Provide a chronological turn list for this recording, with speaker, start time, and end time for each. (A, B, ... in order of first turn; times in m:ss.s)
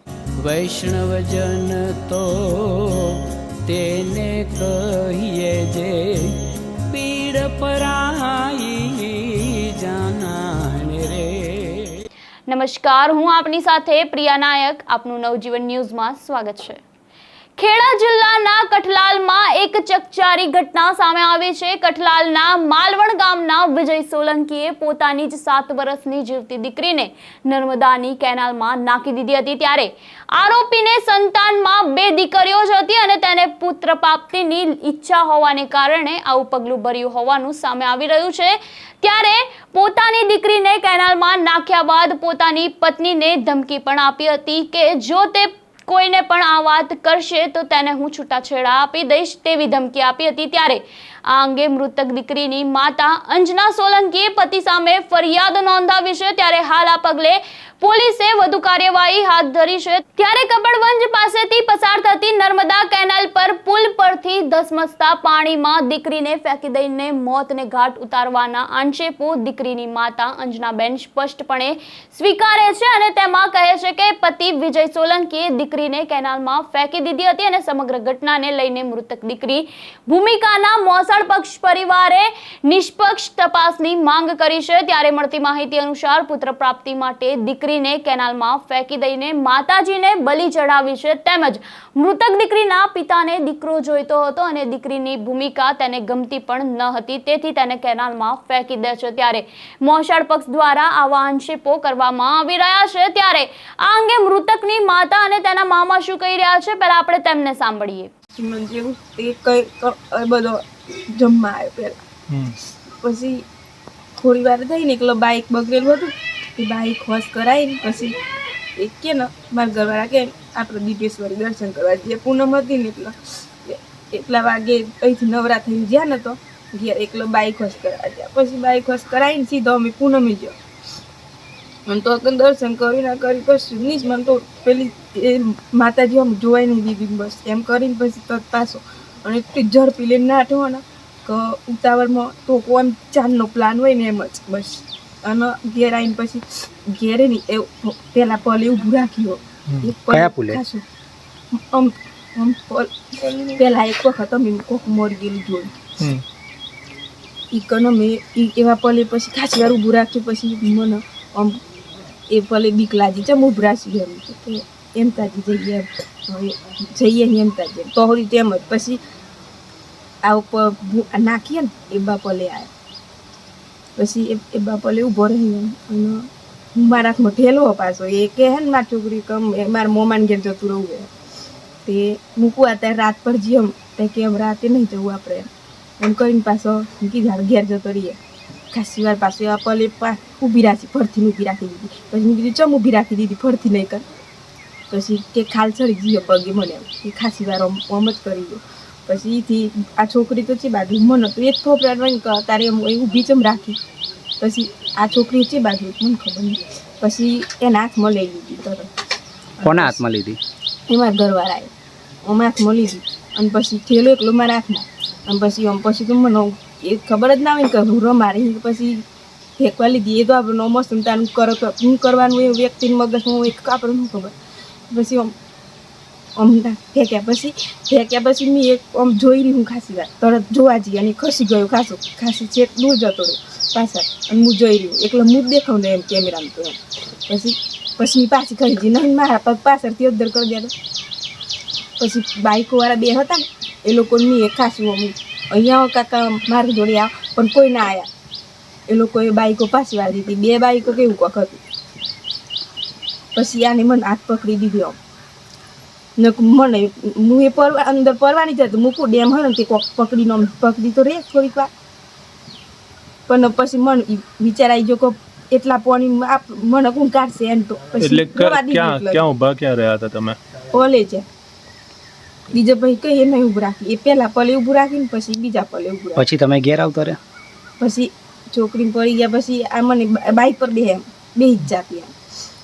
0:00.4-0:06.3 A
0:06.9-0:12.0 A
0:12.5-0:16.8 B
0:17.6-1:48.1 B
1:48.3-1:52.0 C
1:53.0-1:53.4 C
1:54.2-1:58.2 C
1:58.8-2:10.5 C
2:11.9-2:30.8 C
2:29.7-2:30.0 D
2:30.1-2:30.6 E
2:31.5-2:32.9 C
2:33.5-2:35.7 C
2:37.5-2:41.6 C
2:42.3-2:49.0 C
2:50.2-2:52.7 C
2:54.0-3:01.1 C
3:01.8-3:05.5 C
3:06.0-3:08.2 C
3:08.7-3:14.0 C
3:14.9-3:23.8 C
3:24.4-3:28.9 C
3:29.6-3:30.0 C
3:29.6-3:30.4 E
3:30.9-3:31.7 C
3:32.2-3:39.0 C
3:39.6-3:44.3 C
3:44.9-3:45.3 C
3:46.4-4:00.7 C
4:02.0-4:08.1 C
4:08.9-4:11.6 C
4:13.4-4:15.0 C
4:16.2-4:21.7 C
4:23.3-4:29.2 C
4:28.0-4:30.4 D
4:30.7-4:31.2 C
4:32.5-4:36.3 C
4:36.1-4:37.2 E
4:37.8-4:42.1 C